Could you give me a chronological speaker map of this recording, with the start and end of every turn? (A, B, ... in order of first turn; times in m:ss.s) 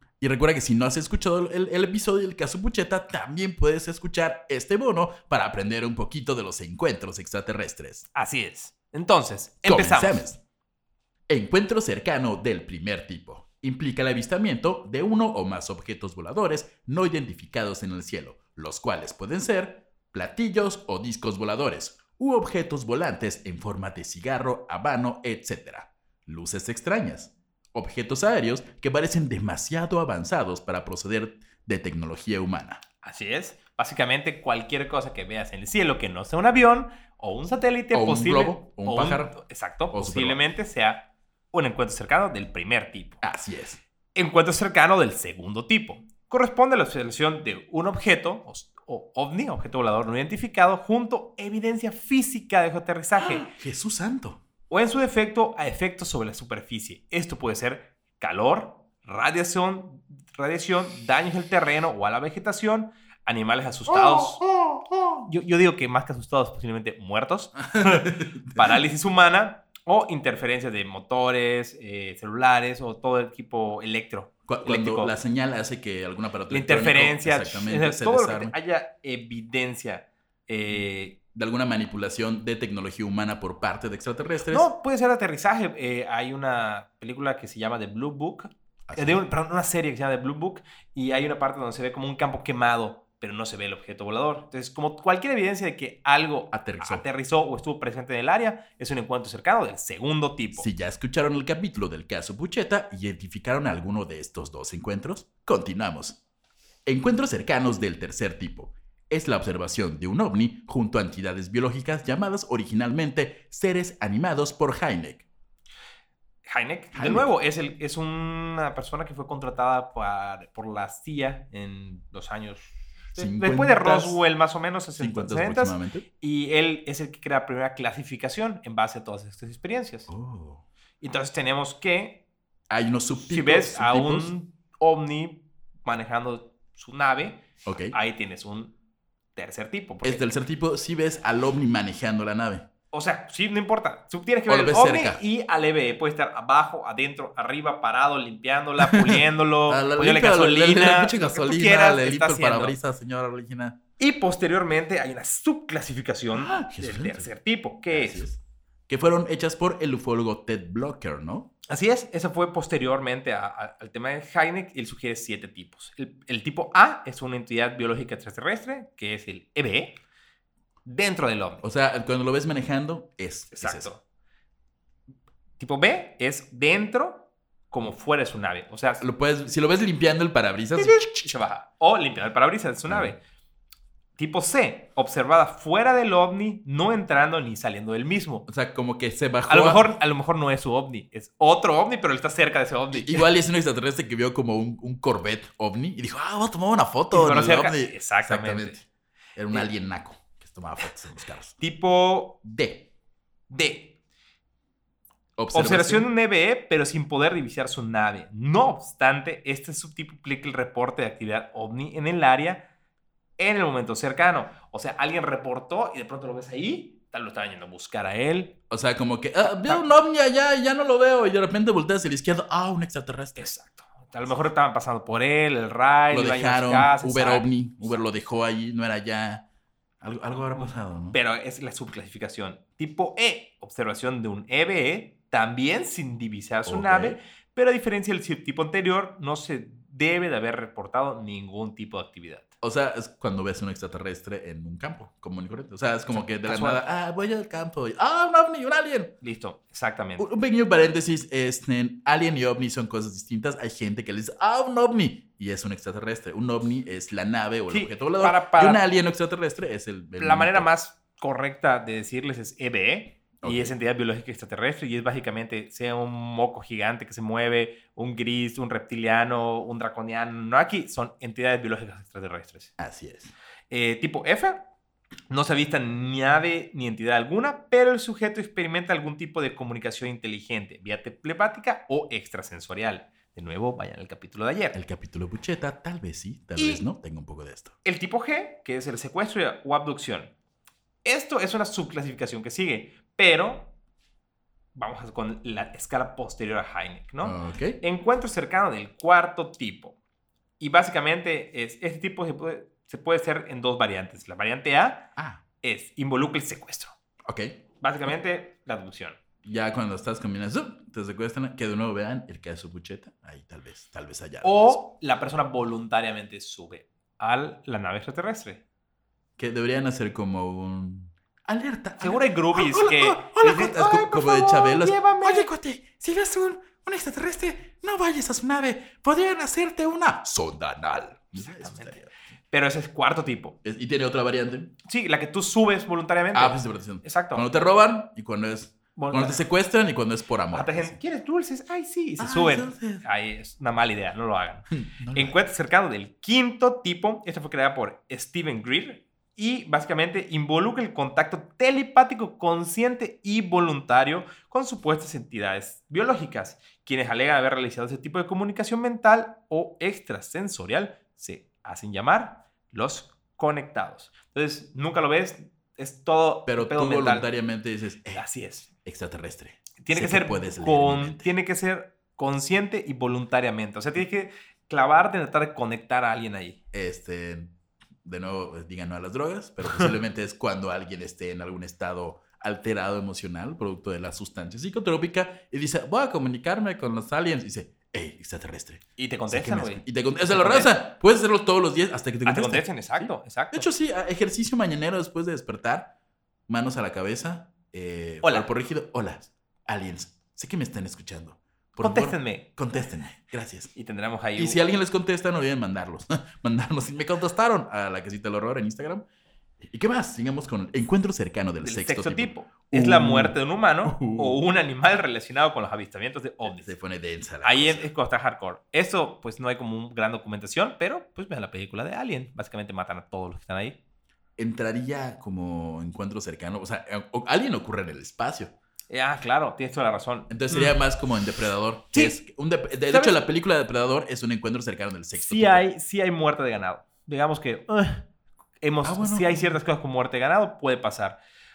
0:00.2-0:08.0 A
0:08.1-0:10.3 B
0:09.6-0:10.4 A
0:11.3-0:32.8 A
0:33.0-0:43.2 B
0:37.9-0:39.4 A
0:39.9-0:40.4 A
0:43.2-0:43.8 A
0:44.1-0:53.5 B
0:53.2-0:54.4 A
0:54.7-1:04.4 B
1:05.1-1:15.1 B
1:07.7-1:08.8 A
1:14.5-1:18.5 A
1:16.5-1:21.2 B
1:21.3-1:24.7 A
1:24.5-1:40.7 B
1:28.9-1:29.2 A
1:36.5-1:37.1 A
1:40.6-1:46.2 A
1:46.8-1:55.2 A
1:56.4-2:10.1 B
1:56.9-1:57.3 A
2:03.2-2:04.2 A
2:05.0-2:06.0 A
2:10.1-2:10.6 A
2:11.0-2:12.2 B
2:12.7-2:14.3 A
2:13.2-2:18.7 B
2:17.6-2:18.0 A
2:19.4-2:20.2 B
2:20.0-2:22.6 A
2:22.9-2:32.8 B
2:24.5-2:25.2 A
2:28.8-2:33.8 A
2:34.0-2:38.3 B
2:36.3-2:37.3 A
2:37.9-2:41.5 A
2:41.7-2:50.0 B
2:50.8-2:51.6 B
2:51.6-2:53.9 A
2:53.5-2:54.0 B
2:55.6-2:59.0 B
2:59.0-3:01.4 A
3:00.8-3:03.2 B
3:02.9-3:03.1 A
3:04.2-3:08.4 B
3:08.5-3:09.9 A
3:09.5-3:13.2 B
3:12.9-3:18.8 A
3:17.1-3:18.8 B
3:19.4-3:21.6 A
3:21.6-3:22.4 B
3:22.4-3:22.9 A
3:23.5-3:24.0 B
3:25.4-3:26.1 A
3:25.5-3:32.7 B
3:33.4-3:38.5 B
3:38.7-3:43.5 A
3:39.4-3:39.8 B
3:43.4-3:48.0 B
3:46.1-3:49.4 A
3:50.0-3:51.2 A
3:50.4-4:02.4 B
3:56.6-3:57.2 A
4:02.6-4:09.1 A
4:06.1-4:06.8 B
4:09.2-4:10.2 B
4:10.2-4:20.7 A
4:17.7-4:18.8 B
4:20.2-4:32.7 B
4:23.4-4:23.7 A
4:32.8-4:33.3 A
4:33.7-4:34.6 B
4:35.3-4:44.8 B
4:44.7-4:47.7 A
4:46.6-4:46.8 B
4:47.8-4:50.3 B
4:51.0-4:53.7 B
4:54.7-5:00.0 B
4:57.2-4:57.8 A
5:00.6-5:05.1 B
5:05.2-5:05.4 A
5:05.6-5:06.9 B
5:07.3-5:07.6 A
5:07.8-5:09.2 B
5:09.4-5:14.8 A
5:14.4-5:18.6 B
5:19.4-5:32.1 A
5:22.0-5:25.5 B
5:31.4-5:32.0 B
5:32.5-5:33.6 B
5:33.6-5:34.7 A
5:34.8-5:37.5 B
5:36.3-5:41.0 A
5:39.0-5:39.4 B
5:40.5-6:07.3 B
5:42.2-5:43.0 A
5:44.7-5:45.4 A
6:06.5-6:08.2 A
6:08.1-6:08.7 B
6:08.8-6:11.3 A
6:09.8-6:16.6 B
6:16.7-6:17.5 A
6:18.0-6:35.9 A
6:19.6-6:19.9 B
6:29.0-6:30.7 B
6:32.2-6:33.7 B
6:36.5-6:43.7 A
6:38.2-6:38.5 B
6:41.8-6:42.5 B
6:43.7-6:44.6 B
6:44.4-6:49.0 A
6:49.6-6:54.4 A
6:51.6-6:56.7 B
6:56.4-6:57.9 A
6:57.4-7:03.8 B
7:04.4-7:08.5 A
7:08.9-7:10.8 B
7:10.3-7:15.6 A
7:12.9-7:13.2 B
7:15.1-7:18.1 B
7:18.6-7:21.2 B
7:18.8-7:19.6 A